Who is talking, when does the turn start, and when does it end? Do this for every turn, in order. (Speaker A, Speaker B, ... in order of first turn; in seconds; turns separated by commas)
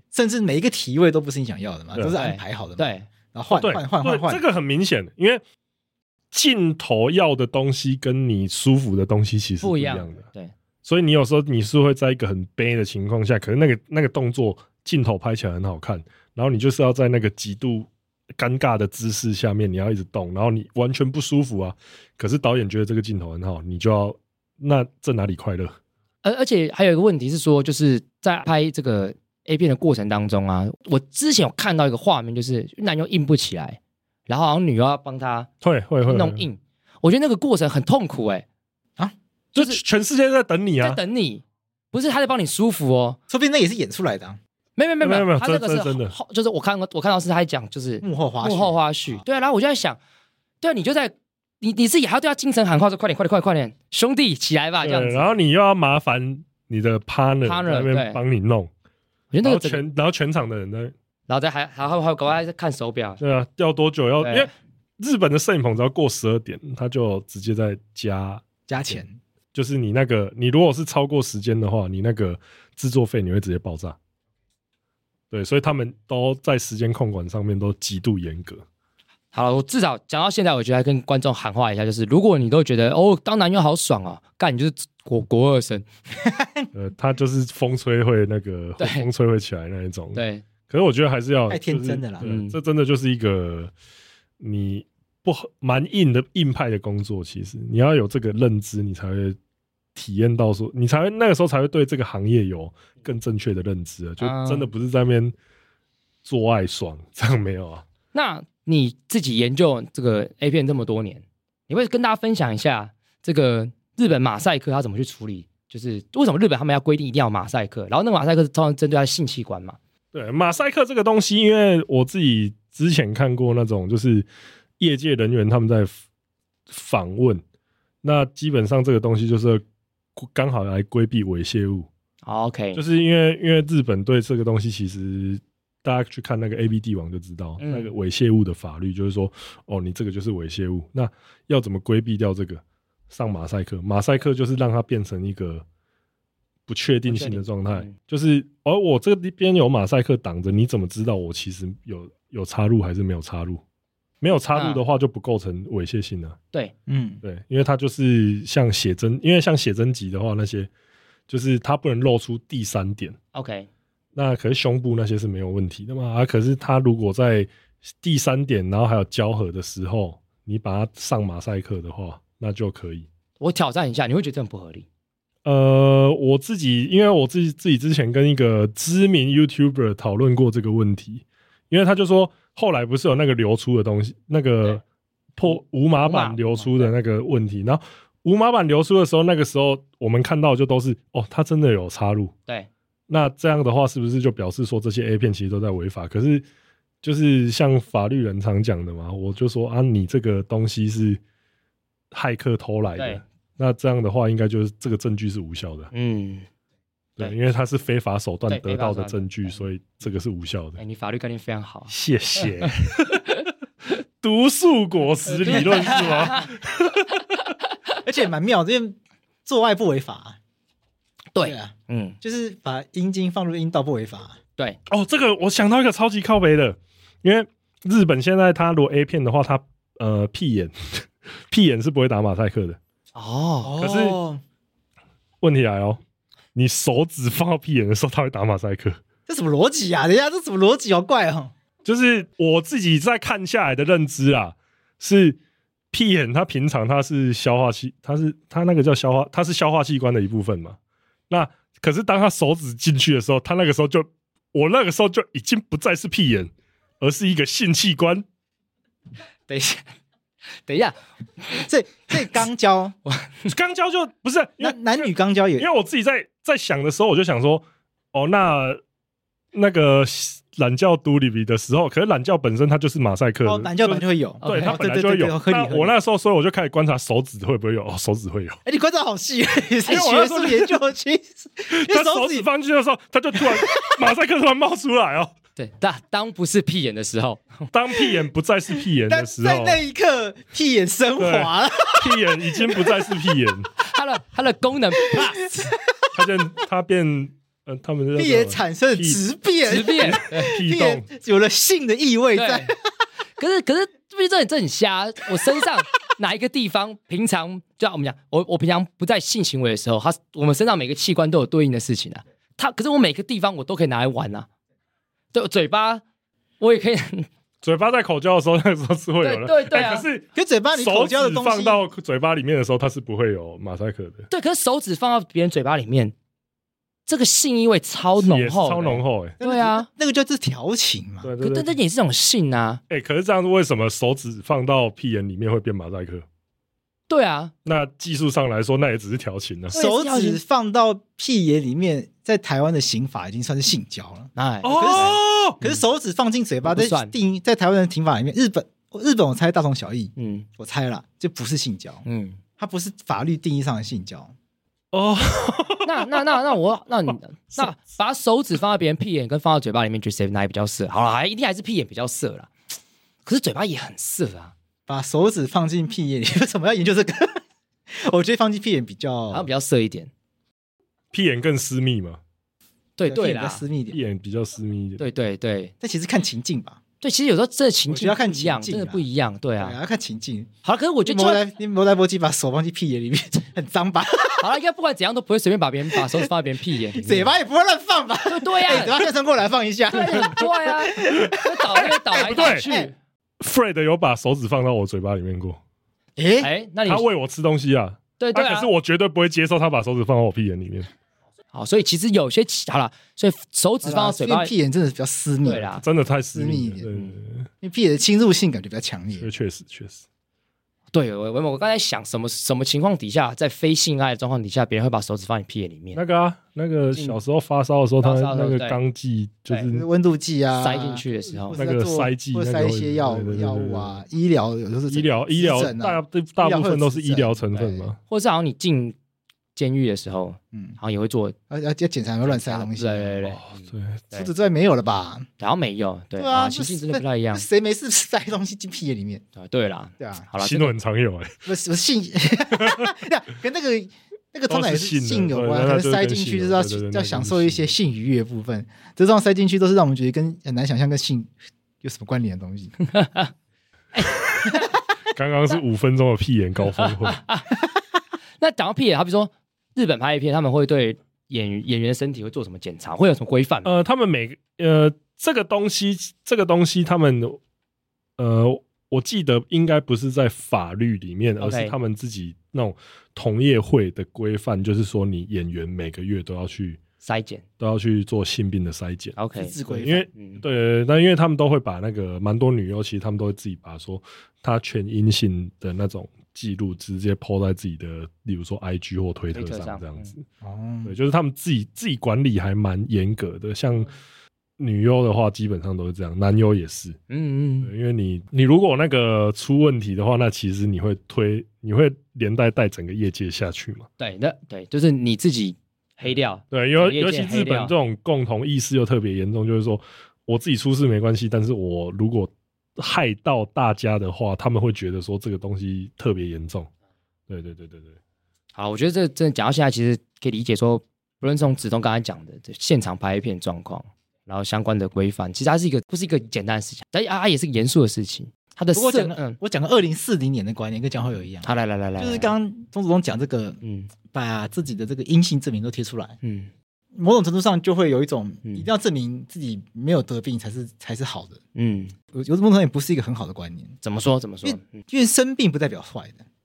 Speaker A: 0.1-4.4, Speaker B: 2.1-3.1, Speaker C: 3.5-5.4, Speaker C: 6.3-10.3, Speaker B: 9.6-10.5, Speaker C: 10.8-25.7, Speaker B: 26.2-35.5, Speaker C: 35.6-36.4, Speaker B: 36.0-38.4, Speaker B: 39.5-39.8, Speaker C: 39.5-41.0, Speaker B: 40.8-43.2, Speaker A: 43.3-44.4, Speaker B: 44.8-50.0, Speaker C: 45.0-46.1, Speaker A: 48.0-49.2, Speaker B: 50.6-55.2, Speaker C: 54.8-58.7, Speaker B: 57.4-58.2, Speaker B: 59.3-59.8, Speaker C: 59.4-60.9, Speaker B: 61.3-63.2, Speaker C: 63.2-68.4, Speaker B: 64.2-64.5, Speaker A: 68.7-69.2, Speaker C: 69.5-74.0, Speaker C: 75.3-78.6, Speaker B: 79.3-85.8, Speaker A: 86.2-86.7, Speaker C: 86.7-93.7, Speaker B: 88.8-89.1, Speaker B: 90.1-90.4, Speaker A: 91.5-92.3, Speaker B: 92.2-92.5, Speaker C: 94.4-99.4, Speaker C: 99.9-105.3, Speaker B: 104.2-104.7, Speaker C: 106.2-107.8, Speaker B: 108.1-119.8, Speaker C: 120.1-124.3, Speaker C: 124.8-125.9, Speaker C: 126.7-127.4, Speaker C: 128.0-129.6, Speaker C: 130.2-131.9, Speaker B: 132.2-132.8, Speaker C: 132.7-145.6, Speaker B: 137.6-137.9, Speaker C: 146.7-153.6, Speaker B: 147.1-147.9, Speaker C: 154.2-156.3, Speaker B: 154.5-154.8, Speaker A: 156.9-157.2, Speaker C: 157.2-160.7, Speaker C: 161.3-163.2, Speaker B: 163.3-163.7, Speaker C: 164.1-167.5, Speaker C: 168.0-173.1, Speaker B: 173.4-174.8, Speaker C: 175.4-184.8, Speaker C: 185.4-192.3, Speaker B: 185.5-186.9, Speaker C: 193.1-196.4, Speaker C: 197.0-201.2, Speaker C: 202.1-205.9, Speaker B: 203.0-203.2, Speaker B: 205.9-206.4, Speaker C: 207.2-210.8, Speaker B: 208.5-209.6, Speaker B: 210.8-212.7, Speaker C: 211.9-213.3, Speaker C: 214.2-217.2, Speaker B: 215.3-216.5, Speaker A: 218.0-220.4, Speaker B: 221.3-222.2, Speaker A: 221.4-224.4, Speaker C: 224.9-232.8, Speaker B: 233.1-233.7, Speaker A: 233.6-234.4, Speaker C: 233.8-234.2, Speaker C: 235.4-236.0, Speaker C: 236.5-239.0, Speaker A: 239.3-241.5, Speaker C: 241.8-245.4, Speaker C: 245.9-250.8, Speaker C: 251.3-258.2, Speaker B: 259.5-259.8, Speaker B: 260.7-260.9, Speaker A: 261.6-262.9, Speaker B: 263.1-263.5, Speaker C: 263.5-268.8, Speaker A: 264.6-265.7, Speaker C: 269.5-278.6, Speaker A: 273.4-275.9, Speaker B: 274.4-274.8, Speaker A: 278.6-282.5, Speaker C: 279.8-280.8, Speaker C: 281.7-285.3, Speaker B: 285.6-287.7, Speaker C: 287.7-289.8, Speaker A: 289.0-293.1, Speaker C: 291.2-293.7, Speaker B: 293.8-295.4, Speaker A: 295.0-296.1, Speaker C: 296.1-299.2, Speaker A: 298.1-302.8, Speaker B: 299.6-300.5, Speaker C: 300.0-301.1, Speaker B: 302.3-302.7, Speaker B: 303.4-314.5, Speaker B: 315.3-316.0, Speaker B: 316.6-317.3, Speaker C: 317.6-324.3, Speaker B: 319.2-320.1, Speaker A: 320.3-321.8, Speaker B: 324.3-326.1, Speaker B: 327.1-329.9, Speaker C: 328.2-329.4, Speaker A: 329.4-331.3, Speaker C: 331.2-331.7, Speaker B: 331.4-332.8, Speaker C: 332.9-336.2, Speaker B: 337.1-337.5, Speaker C: 337.6-339.8, Speaker B: 339.7-340.4, Speaker A: 339.7-352.0, Speaker B: 344.4-345.8, Speaker C: 344.6-345.6, Speaker B: 346.6-347.1, Speaker B: 350.1-350.4, Speaker B: 352.0-352.4, Speaker A: 352.6-354.3, Speaker C: 354.9-356.4, Speaker B: 355.8-362.5, Speaker B: 363.2-364.5, Speaker A: 364.9-369.5, Speaker B: 369.3-370.1, Speaker C: 371.1-372.2, Speaker B: 373.0-373.6, Speaker A: 373.1-374.0, Speaker C: 373.9-375.0, Speaker B: 375.0-375.7, Speaker A: 375.8-376.8, Speaker B: 377.0-379.8, Speaker A: 377.9-379.0, Speaker A: 379.6-380.5, Speaker B: 380.6-381.4, Speaker A: 381.0-384.5, Speaker B: 384.4-387.3, Speaker A: 385.9-386.2, Speaker A: 386.9-392.9, Speaker B: 388.2-389.0, Speaker B: 389.9-392.9, Speaker C: 391.8-392.6, Speaker C: 393.4-395.6, Speaker A: 396.2-396.5, Speaker B: 396.4-397.0, Speaker C: 396.9-400.9, Speaker B: 398.2-398.7, Speaker B: 401.5-404.5, Speaker A: 403.8-405.7, Speaker B: 405.4-405.8, Speaker C: 405.8-407.5, Speaker A: 406.3-406.9, Speaker A: 407.6-409.3, Speaker C: 409.1-410.0, Speaker B: 410.9-416.0, Speaker C: 415.9-419.8, Speaker B: 416.9-417.2, Speaker B: 418.0-418.8, Speaker A: 419.7-427.9, Speaker B: 420.6-421.6, Speaker C: 421.5-424.0, Speaker C: 424.9-428.0, Speaker B: 427.5-428.9, Speaker B: 429.6-431.4, Speaker A: 430.5-430.8, Speaker A: 431.5-433.4, Speaker B: 432.2-434.3, Speaker C: 433.3-434.0, Speaker A: 434.1-435.3, Speaker B: 435.4-437.4, Speaker A: 436.2-439.2, Speaker B: 439.4-440.7, Speaker A: 440.0-440.3, Speaker C: 440.4-441.3, Speaker A: 441.4-452.7, Speaker C: 442.5-442.9, Speaker C: 444.5-447.7, Speaker B: 452.9-453.3, Speaker C: 455.1-457.2, Speaker B: 456.8-457.5, Speaker B: 458.4-463.7, Speaker C: 463.6-467.4, Speaker C: 468.2-476.8, Speaker B: 471.4-471.7, Speaker B: 477.0-477.4, Speaker C: 477.6-490.2, Speaker B: 479.1-479.6, Speaker A: 479.3-480.1, Speaker B: 480.1-480.4, Speaker B: 489.3-490.1, Speaker A: 490.4-490.9, Speaker C: 490.8-493.9, Speaker C: 494.6-497.0, Speaker B: 497.1-497.7, Speaker C: 497.6-503.9, Speaker B: 504.0-507.7, Speaker C: 506.5-516.7, Speaker C: 517.3-518.0, Speaker B: 518.5-529.4, Speaker A: 528.7-533.6, Speaker B: 531.4-532.3, Speaker B: 533.6-533.9, Speaker A: 534.1-536.2, Speaker B: 536.2-536.5, Speaker A: 536.9-541.4, Speaker B: 541.5-541.9, Speaker A: 542.1-543.8, Speaker B: 543.8-544.8, Speaker A: 544.4-546.2